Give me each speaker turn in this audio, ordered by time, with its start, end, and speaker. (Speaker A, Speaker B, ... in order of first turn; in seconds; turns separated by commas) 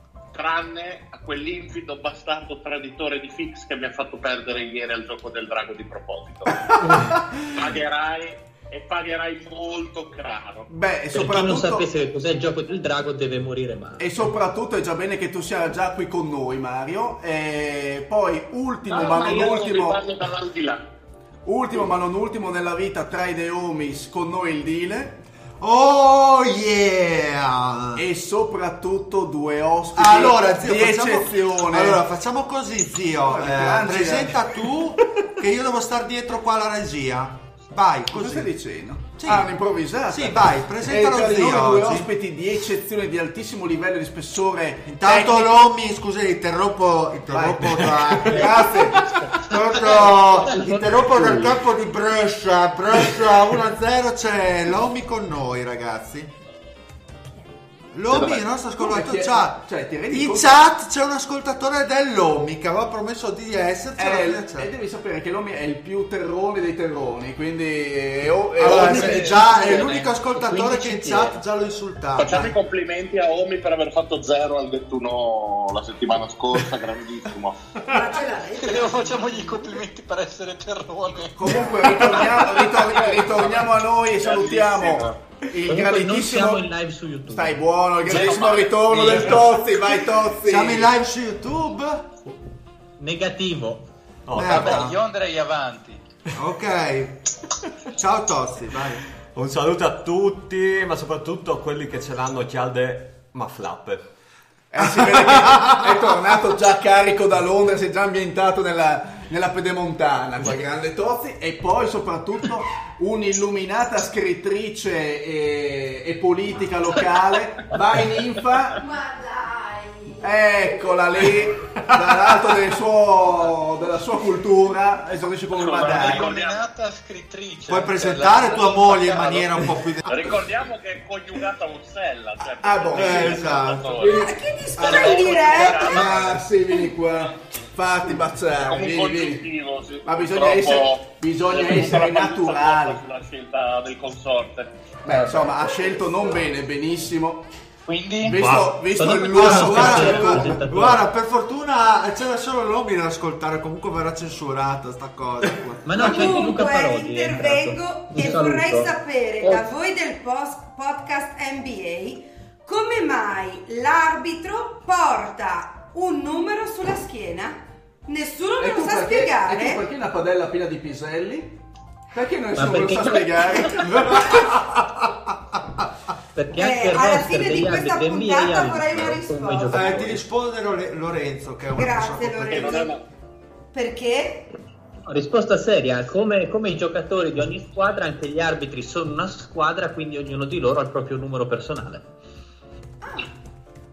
Speaker A: 0.3-10.7, Speaker B: 10.7-11.8, Speaker C: 11.1-14.2, Speaker B: 14.0-20.0, Speaker A: 18.9-20.8, Speaker B: 21.4-25.2, Speaker D: 25.6-28.0, Speaker B: 27.9-32.0, Speaker D: 29.9-38.5, Speaker B: 33.3-34.4, Speaker B: 38.1-45.6, Speaker D: 39.1-39.5, Speaker D: 40.1-42.1, Speaker D: 44.9-56.3, Speaker B: 47.3-49.0, Speaker C: 49.2-51.5, Speaker D: 57.9-64.7, Speaker A: 58.1-58.4, Speaker B: 58.3-60.6, Speaker B: 64.0-69.9, Speaker D: 68.6-72.5, Speaker C: 68.7-71.4, Speaker A: 72.2-77.6, Speaker E: 77.8-79.8, Speaker F: 78.6-81.7, Speaker B: 81.4-86.7, Speaker A: 83.0-85.1, Speaker C: 85.7-87.6, Speaker B: 87.3-90.9, Speaker F: 88.0-89.6, Speaker D: 90.4-92.2, Speaker C: 93.0-93.8, Speaker G: 94.3-94.8, Speaker D: 94.3-95.0, Speaker F: 94.4-96.0, Speaker D: 96.3-97.2, Speaker D: 97.9-99.0, Speaker G: 99.3-104.1, Speaker B: 104.7-118.8, Speaker D: 104.8-106.0, Speaker E: 118.8-120.8, Speaker B: 120.2-126.3, Speaker A: 125.5-126.6, Speaker F: 125.8-129.8, Speaker D: 127.7-130.2, Speaker A: 130.1-136.4, Speaker B: 132.6-134.1, Speaker D: 132.9-134.3, Speaker E: 134.0-136.9, Speaker B: 134.8-139.4, Speaker A: 138.6-144.7, Speaker B: 140.0-143.0, Speaker B: 145.1-147.4, Speaker C: 145.1-145.4, Speaker F: 147.9-148.4, Speaker B: 148.2-150.6, Speaker G: 148.4-148.8, Speaker C: 148.9-151.1, Speaker D: 149.3-156.5, Speaker C: 155.8-159.7, Speaker E: 155.9-169.8, Speaker B: 168.6-171.6, Speaker B: 172.1-174.2, Speaker C: 172.5-174.2, Speaker D: 173.8-175.9, Speaker C: 176.3-180.2, Speaker E: 176.5-180.2, Speaker D: 179.7-182.8, Speaker E: 181.7-182.9, Speaker A: 182.5-183.0, Speaker E: 183.7-184.5, Speaker C: 185.1-192.0